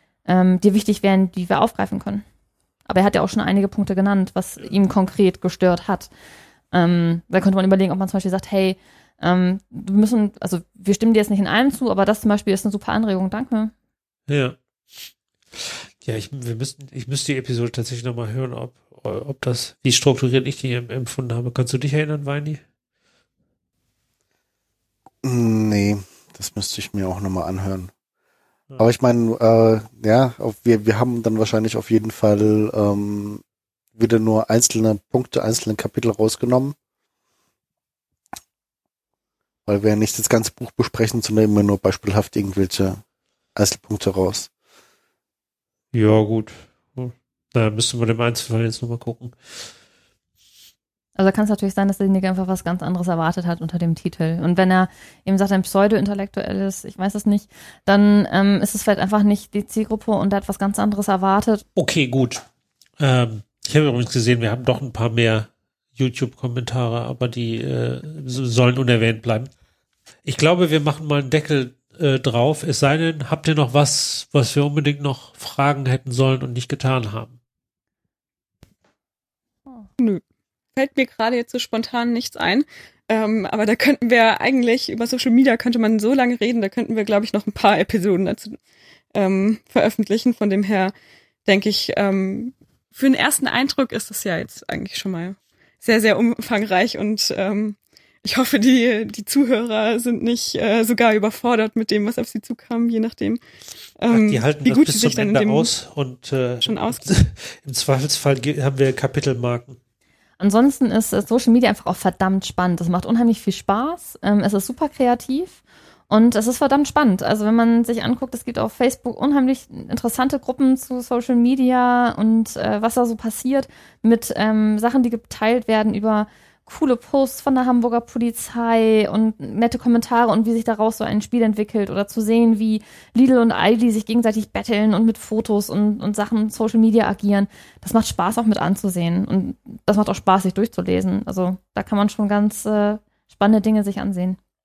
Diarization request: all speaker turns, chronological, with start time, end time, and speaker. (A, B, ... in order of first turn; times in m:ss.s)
0:00.3-0:02.2 A
0:02.9-0:06.1 A
0:06.7-0:13.7 A
0:14.3-0:22.6 B
0:25.2-0:27.9 C
0:28.8-0:33.4 C
0:34.0-0:36.8 C
0:39.7-0:43.0 C
0:43.6-0:44.5 C
0:45.9-0:49.7 B
0:51.2-1:01.6 A
1:01.8-1:02.4 B
1:03.0-1:09.5 B
1:10.2-1:17.4 B
1:20.8-1:28.6 D
1:29.1-1:30.9 D
1:31.5-1:43.4 D
1:44.0-1:45.7 D
1:44.1-1:49.8 B
1:46.6-1:47.0 D
1:50.4-2:24.4 A